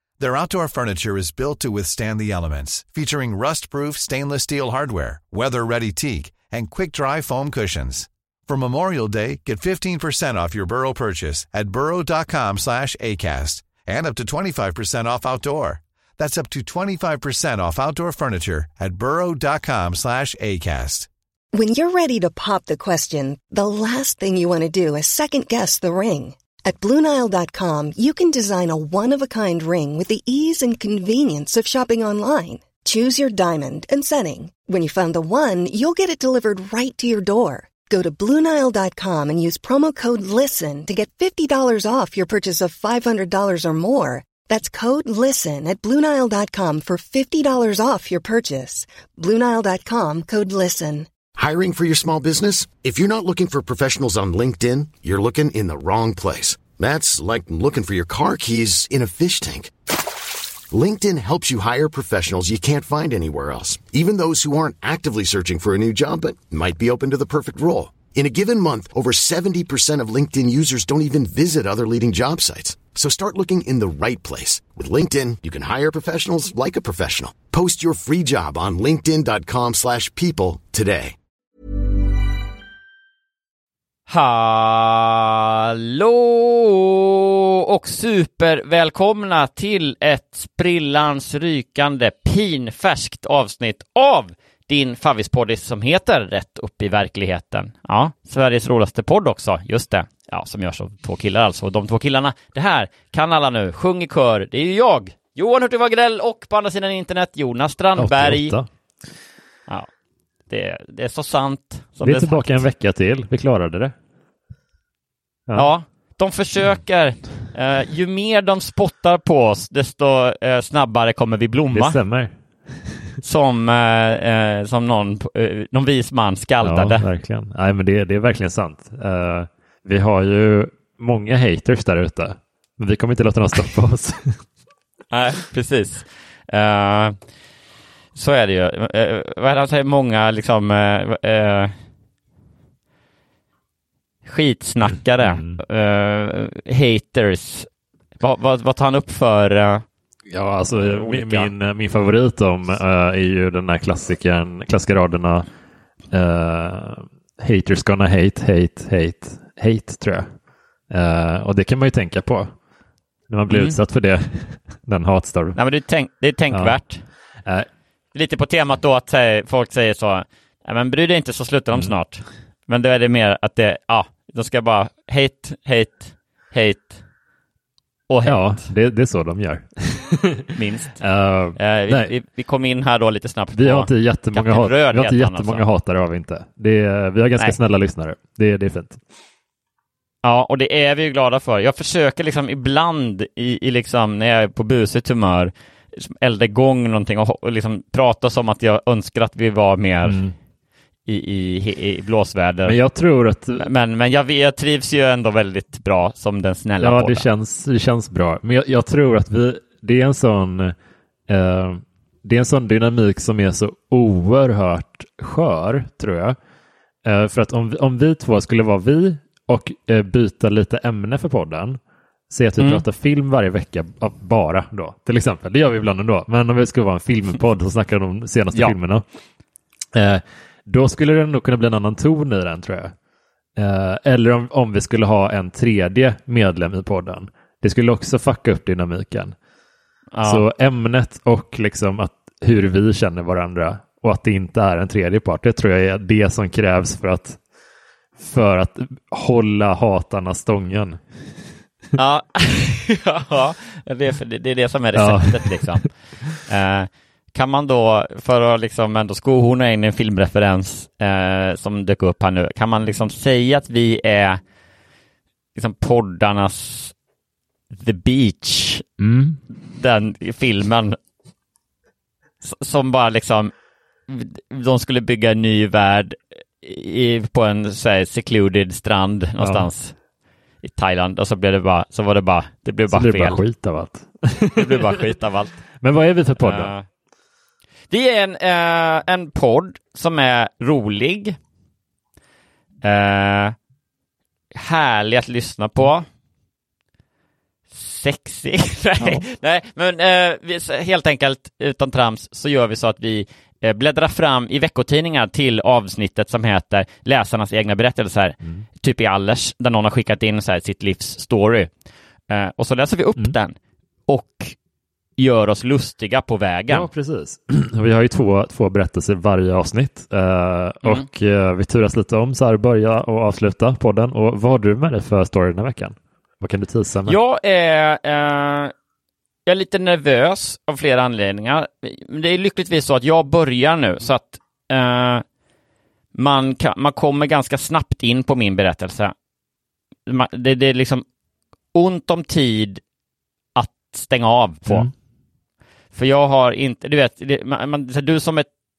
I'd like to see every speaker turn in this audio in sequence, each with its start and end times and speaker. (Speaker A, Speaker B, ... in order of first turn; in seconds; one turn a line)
Speaker A: 0.2-21.1
Speaker B: 21.5-51.1
Speaker C: 51.4-59.7
Speaker C: 60.7-81.1
Speaker D: 84.1-108.5
Speaker E: 108.0-108.7
Speaker D: 110.5-112.7
Speaker E: 112.0-113.9
Speaker D: 115.5-122.0
Speaker E: 121.7-122.8
Speaker D: 123.2-127.0
Speaker E: 126.6-134.4
Speaker D: 135.1-137.2
Speaker D: 138.1-141.7
Speaker D: 144.2-147.7
Speaker E: 145.2-145.6
Speaker D: 148.2-149.8
Speaker E: 150.3-155.5
Speaker D: 150.8-151.5
Speaker E: 156.1-160.3
Speaker E: 160.9-162.5
Speaker E: 163.3-165.6
Speaker D: 163.5-163.8
Speaker D: 165.6-167.0
Speaker E: 166.5-166.8
Speaker D: 168.1-177.0
Speaker D: 178.1-178.7
Speaker E: 178.2-182.1
Speaker D: 180.5-181.0
Speaker D: 181.6-185.6
Speaker E: 183.5-189.0
Speaker D: 190.2-200.2
Speaker E: 200.0-200.3
Speaker D: 201.1-202.8
Speaker E: 202.6-203.7
Speaker D: 203.6-207.3
Speaker E: 206.8-210.7
Speaker E: 211.3-216.4
Speaker E: 217.0-221.8
Speaker E: 222.3-229.1
Speaker E: 229.9-232.9
Speaker E: 233.6-239.3
Speaker D: 240.1-240.4
Speaker E: 240.2-247.4
Speaker E: 248.2-251.0
Speaker D: 251.9-255.9
Speaker E: 254.9-255.9
Speaker D: 256.4-264.4
Speaker D: 265.5-266.9
Speaker D: 267.7-268.8
Speaker E: 269.0-269.4
Speaker D: 269.7-271.0
Speaker D: 272.4-273.5
Speaker D: 274.1-279.9
Speaker E: 279.4-279.7
Speaker D: 280.6-283.4
Speaker E: 282.9-285.0
Speaker D: 284.6-285.6
Speaker E: 285.8-286.7
Speaker D: 286.4-286.8
Speaker D: 287.9-291.4
Speaker D: 292.8-293.6
Speaker D: 294.5-296.1
Speaker D: 297.7-311.7
Speaker D: 312.3-313.6
Speaker D: 314.1-314.6
Speaker D: 315.2-316.9
Speaker E: 316.7-327.2
Speaker D: 327.1-328.7
Speaker D: 329.4-335.2
Speaker D: 336.1-339.1
Speaker D: 340.1-341.0
Speaker D: 341.7-342.8
Speaker D: 343.5-344.9
Speaker D: 345.9-348.5